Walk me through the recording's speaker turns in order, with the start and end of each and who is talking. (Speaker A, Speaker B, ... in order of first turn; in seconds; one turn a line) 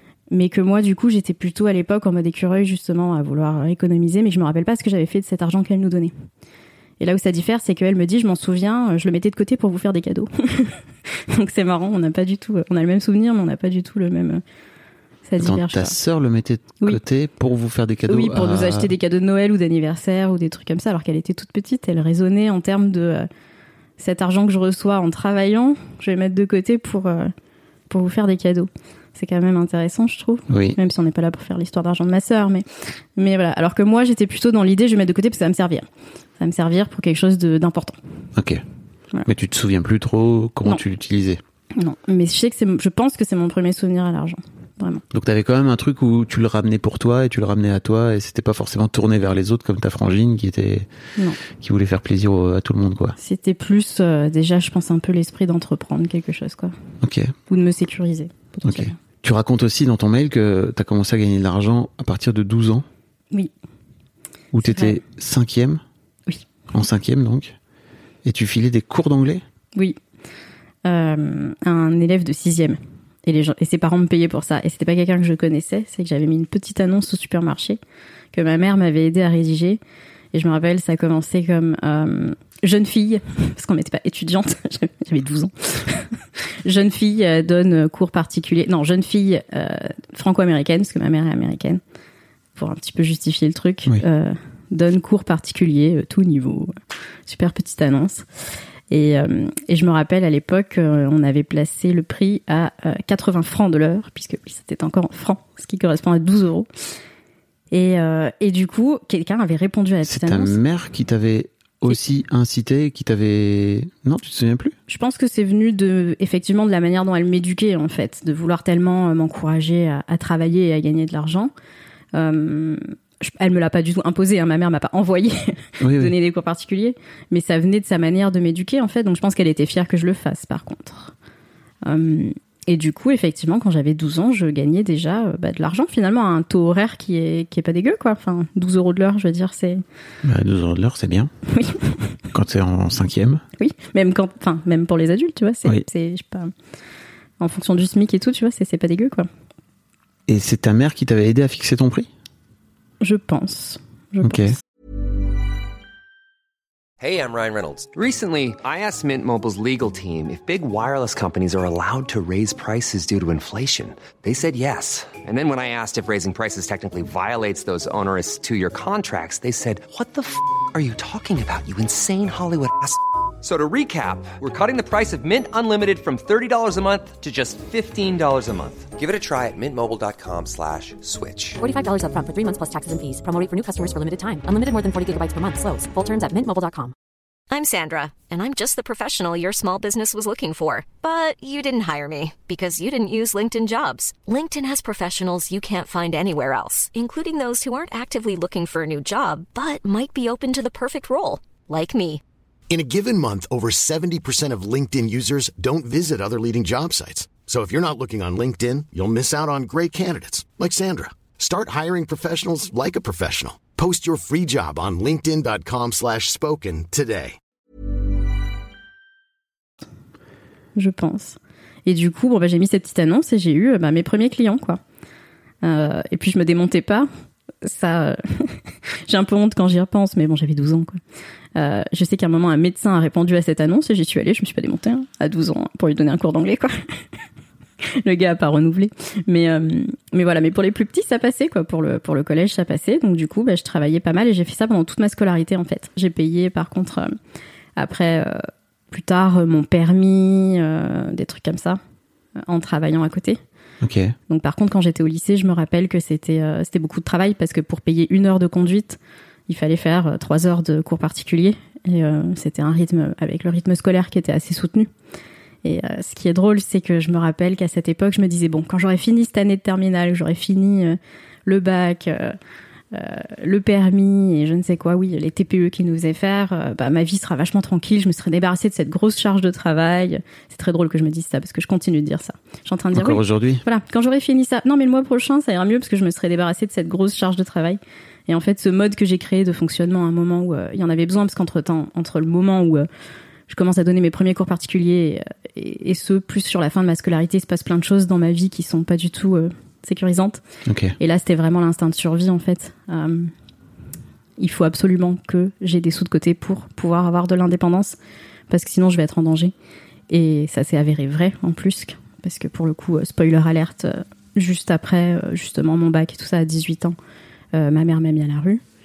Speaker A: 0.3-6.1
Speaker A: 7.0-14.4
Speaker A: 15.3-15.9
Speaker B: 15.4-18.9
Speaker A: 18.1-23.3
Speaker A: 24.0-27.3
Speaker A: 27.9-35.9
Speaker B: 30.5-30.8
Speaker A: 36.4-38.0
Speaker B: 38.4-38.6
Speaker B: 39.3-41.4
Speaker A: 41.8-45.0
Speaker B: 45.1-50.9
Speaker B: 51.5-53.2
Speaker A: 53.2-56.7
Speaker B: 57.0-57.3
Speaker A: 57.5-59.0
Speaker B: 58.7-62.9
Speaker B: 64.5-65.8
Speaker A: 64.6-65.0
Speaker B: 66.7-67.5
Speaker B: 68.2-69.4
Speaker A: 70.9-77.8
Speaker A: 78.3-79.8
Speaker A: 80.3-91.8
Speaker A: 92.6-96.7
Speaker A: 97.3-98.3
Speaker A: 98.9-106.7
Speaker A: 107.7-110.6
Speaker B: 110.0-114.8
Speaker A: 114.9-121.5
Speaker A: 122.1-131.1
Speaker B: 125.8-126.1
Speaker A: 131.8-139.8
Speaker B: 140.2-141.3
Speaker A: 141.5-141.8
Speaker B: 142.3-143.4
Speaker A: 143.6-146.5
Speaker A: 147.4-149.3
Speaker B: 150.3-152.1
Speaker A: 153.0-154.6
Speaker B: 154.2-154.6
Speaker C: 157.0-181.6
Speaker D: 181.6-186.9
Speaker E: 187.5-202.2
Speaker F: 202.7-217.4
Speaker A: 220.8-224.8
Speaker A: 225.6-227.1
Speaker A: 227.6-231.0
Speaker A: 231.6-236.8
Speaker A: 238.0-247.1
Speaker A: 247.8-251.8
Speaker A: 252.5-253.4
Speaker B: 253.8-254.2
Speaker A: 254.3-264.9
Speaker A: 265.6-272.4
Speaker A: 272.9-292.9
Speaker B: 282.9-283.6
Speaker A: 293.5-300.4
Speaker B: 300.7-301.0
Speaker A: 301.0-303.3
Speaker A: 304.4-308.0
Speaker A: 308.5-309.5
Speaker A: 310.1-317.0
Speaker A: 317.5-318.6